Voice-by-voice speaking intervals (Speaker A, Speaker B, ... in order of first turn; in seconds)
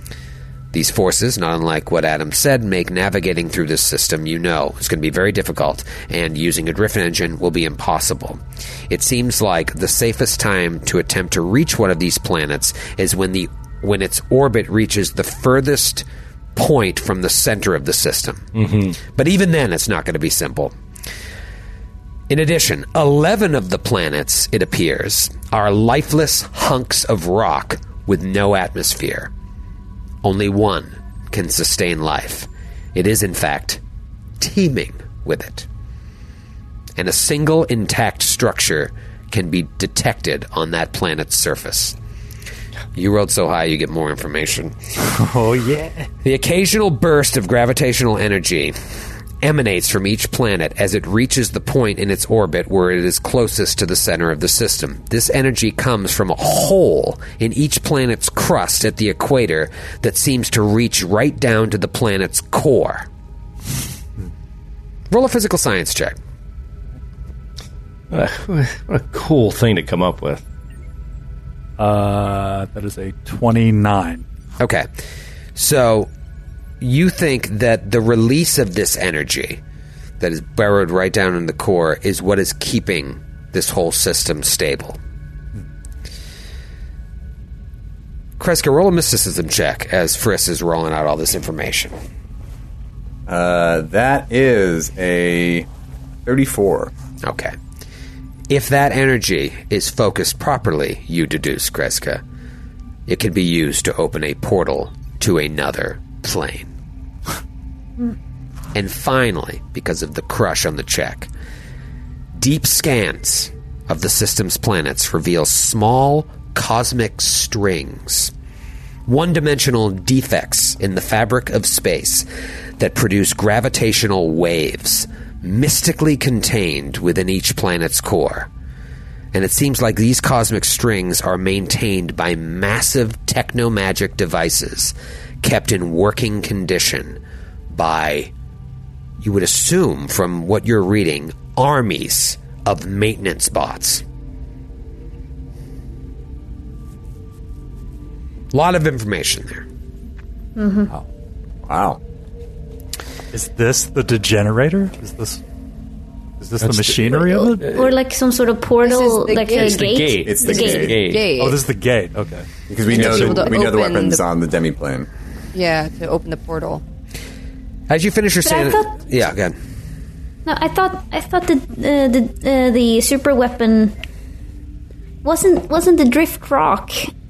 Speaker A: 0.7-16.1, 16.6-18.5, 19.1-20.7, 22.3-29.3, 30.2-33.8, 34.4-35.7, 37.0-42.0, 43.0-44.8, 46.2-48.8, 49.4-63.1, 65.1-66.2, 74.6-74.9, 75.6-76.1, 76.8-79.6, 80.2-85.0, 88.4-91.9, 97.2-97.6, 98.5-102.2, 103.1-106.7, 108.7-111.3, 112.3-118.3, 119.1-122.3, 122.8-128.5, 129.3-137.2, 137.7-138.3, 139.2-144.0, 148.5-149.7, 167.9-169.6
Speaker B: 18.6-19.0, 68.1-70.4, 157.6-157.9, 159.6-161.3
Speaker C: 45.1-46.1, 71.8-74.2, 153.3-155.4, 156.4-157.7, 161.3-163.5
Speaker D: 93.3-95.7, 96.3-96.9, 151.7-152.0, 160.2-161.1, 162.7-165.1
Speaker E: 150.6-150.9, 157.7-160.9, 168.4-168.9, 170.5-174.0, 175.2-177.1
Speaker F: 158.8-160.1, 160.7-161.6, 162.9-164.2, 165.5-166.8